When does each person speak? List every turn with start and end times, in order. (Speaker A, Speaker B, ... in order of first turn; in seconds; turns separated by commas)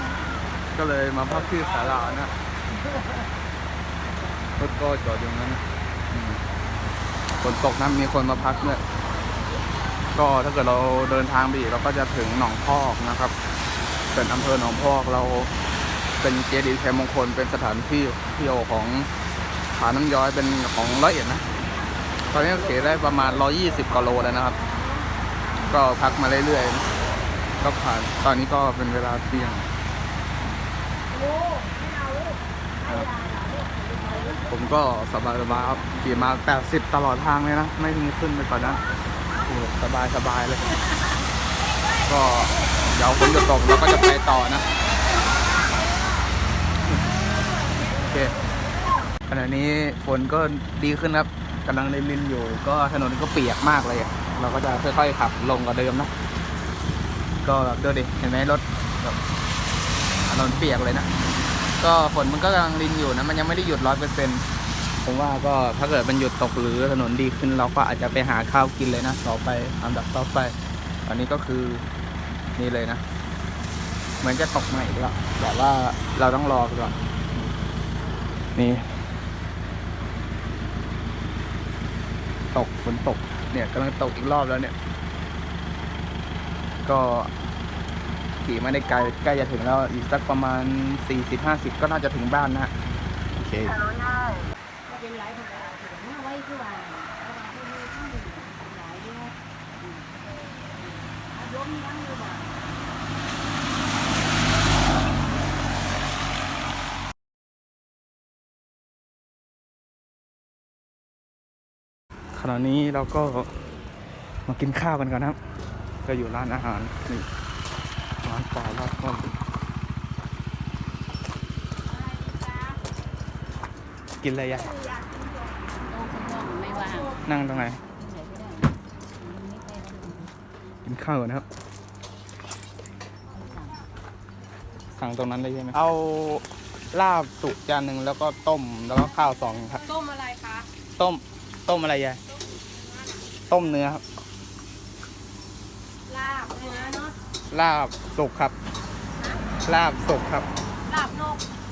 Speaker A: 0.7-2.3, Speaker A: 4.5-6.4, Speaker A: 7.4-8.8, Speaker A: 10.1-13.3, Speaker A: 14.1-15.5, Speaker A: 16.2-19.1, Speaker A: 19.7-21.4, Speaker A: 22.3-24.6, Speaker A: 25.6-26.9, Speaker A: 27.6-29.6, Speaker B: 31.2-32.2, Speaker A: 32.8-33.1, Speaker B: 33.2-34.2, Speaker C: 34.0-34.3, Speaker A: 34.5-38.8, Speaker A: 39.4-40.8, Speaker A: 42.0-44.7, Speaker A: 47.9-48.3, Speaker A: 49.3-56.1, Speaker A: 57.4-59.2, Speaker A: 60.3-61.1, Speaker A: 61.8-64.4, Speaker A: 65.0-71.8, Speaker A: 72.5-73.0, Speaker A: 74.2-77.0, Speaker A: 78.5-78.8, Speaker A: 82.5-84.7, Speaker A: 86.8-87.3, Speaker A: 88.4-92.7, Speaker A: 93.4-93.8, Speaker C: 94.9-100.0, Speaker C: 101.1-102.5, Speaker A: 112.3-113.5, Speaker A: 114.5-115.4, Speaker A: 116.0-117.3, Speaker A: 118.2-119.4, Speaker B: 122.1-122.7, Speaker A: 124.2-124.8, Speaker C: 125.8-127.2, Speaker A: 127.2-127.8, Speaker C: 127.7-130.3, Speaker A: 130.8-131.4, Speaker C: 133.3-133.8, Speaker A: 134.9-139.9, Speaker B: 139.9-140.6, Speaker A: 141.0-142.2, Speaker A: 143.5-144.0, Speaker C: 146.1-147.1, Speaker B: 146.1-147.0, Speaker A: 147.5-148.6, Speaker A: 149.7-150.5, Speaker C: 150.9-151.4